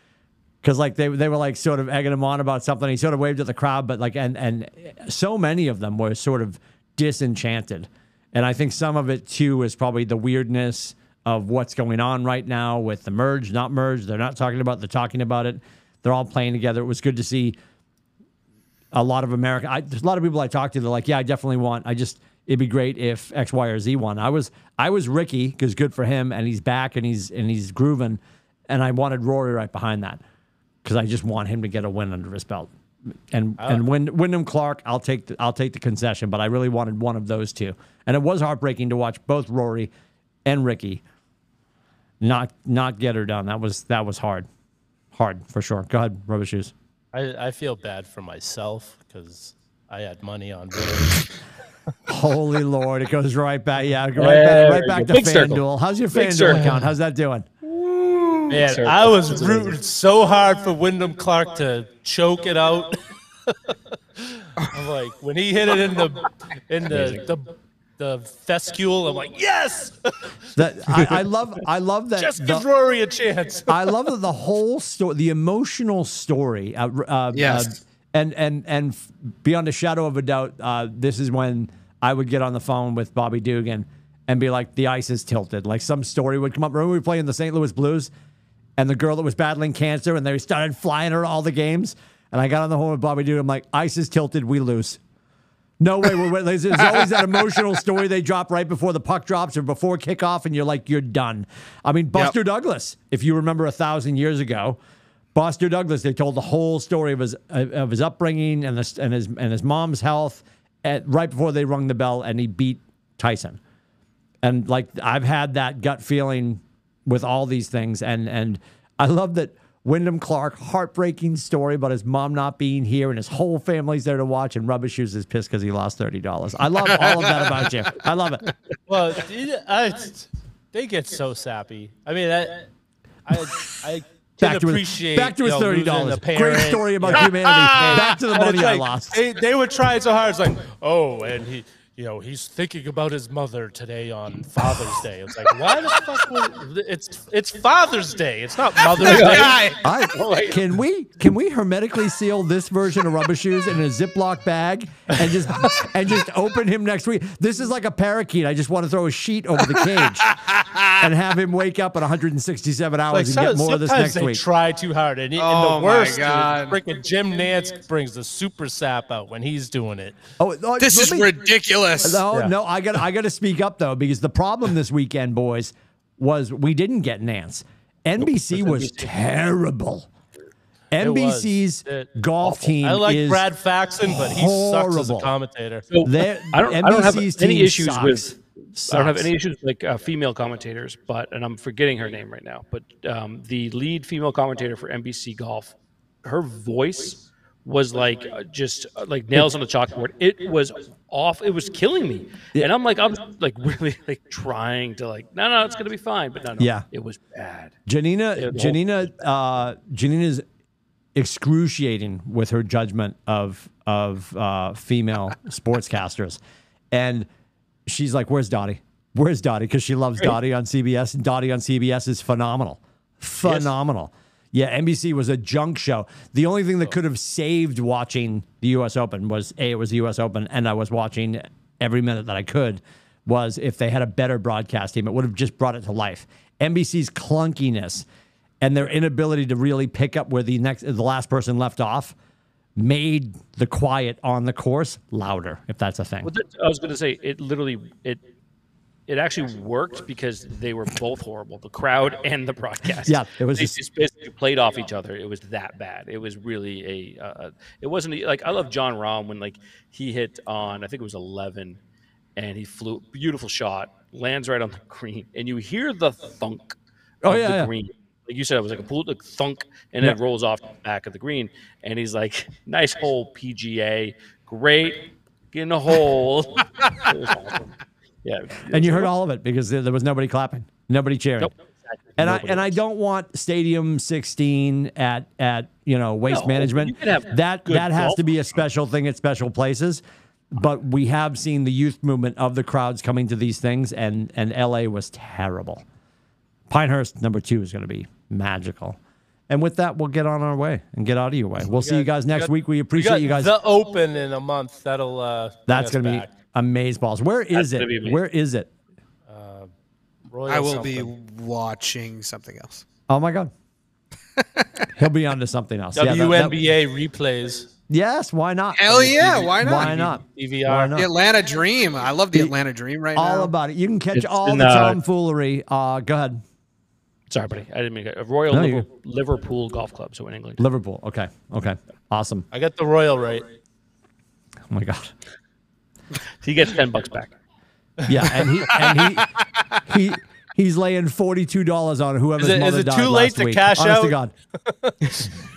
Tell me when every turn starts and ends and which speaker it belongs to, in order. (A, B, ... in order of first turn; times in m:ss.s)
0:00.6-0:17.6 A
0:18.9-0:30.2 A
0:30.8-0:32.7 A
0:33.3-0:39.9 A
0:33.6-0:33.8 B
0:40.4-0:41.0 A
0:42.2-0:44.5 A
0:45.1-0:46.7 A
0:47.1-0:51.3 B
0:52.1-0:57.5 A
0:54.2-0:56.8 C
0:57.7-0:59.7 C
0:58.5-1:10.4 B
1:06.9-1:07.2 C
1:10.6-1:12.6 A
1:12.2-1:14.0 B
1:13.7-1:28.1 A
1:17.3-1:17.7 D
1:28.8-1:35.0 A
1:35.8-1:44.8 A
1:45.3-1:53.6 A
1:54.4-2:08.4 A
2:06.9-2:07.4 D
2:08.9-2:12.7 B
2:13.2-2:29.6 B
2:14.4-2:19.2 A
2:29.0-2:29.8 D
2:29.1-2:29.5 C
2:29.2-2:40.4 A
2:30.2-2:30.4 C
2:40.3-2:40.9 D
2:41.0-2:44.4 A
2:43.1-2:50.2 B
2:45.4-2:46.8 D
2:50.4-2:51.3 A
2:50.8-2:52.2 D
2:52.0-3:00.1 A
3:00.9-3:03.4 A
3:01.0-3:05.9 B
3:04.0-3:05.3 A
3:05.9-3:27.7 C
3:06.0-3:09.3 A
3:26.6-3:26.8 A
3:27.9-3:30.4 A
3:28.4-3:29.0 C
3:31.1-3:36.4 A
3:36.9-3:37.3 A
3:37.9-3:58.0 A
3:58.6-4:02.1 A
4:02.8-4:06.3 A
4:06.2-4:08.2 C
4:09.1-4:21.8 C
4:13.0-4:13.8 A
4:22.4-4:39.1 C
4:27.2-4:27.7 A
4:38.7-4:41.5 A
4:41.4-4:42.8 C
4:42.2-4:50.0 A
4:46.3-4:48.3 C
4:50.5-4:55.8 A
4:56.7-5:03.5 A
5:01.7-5:06.3 B
5:05.7-5:08.7 A
5:07.5-5:08.2 C
5:09.3-5:09.7 B
5:10.3-5:11.1 B
5:10.5-5:12.8 D
5:13.1-5:13.5 A
5:14.4-5:14.6 D
5:14.9-5:16.5 A
5:15.9-5:17.7 B
5:17.9-5:21.1 A
5:18.7-5:20.0 D
5:19.8-5:21.0 B
5:20.9-5:23.5 D
5:23.2-5:26.4 A
5:24.1-5:25.0 C
5:27.3-5:30.6 C
5:28.5-5:28.8 A
5:30.6-5:32.4 A
5:32.5-5:33.5 B
5:34.7-5:35.1 A
5:36.4-5:37.3 C
5:38.0-5:44.3 A
5:42.4-5:45.3 B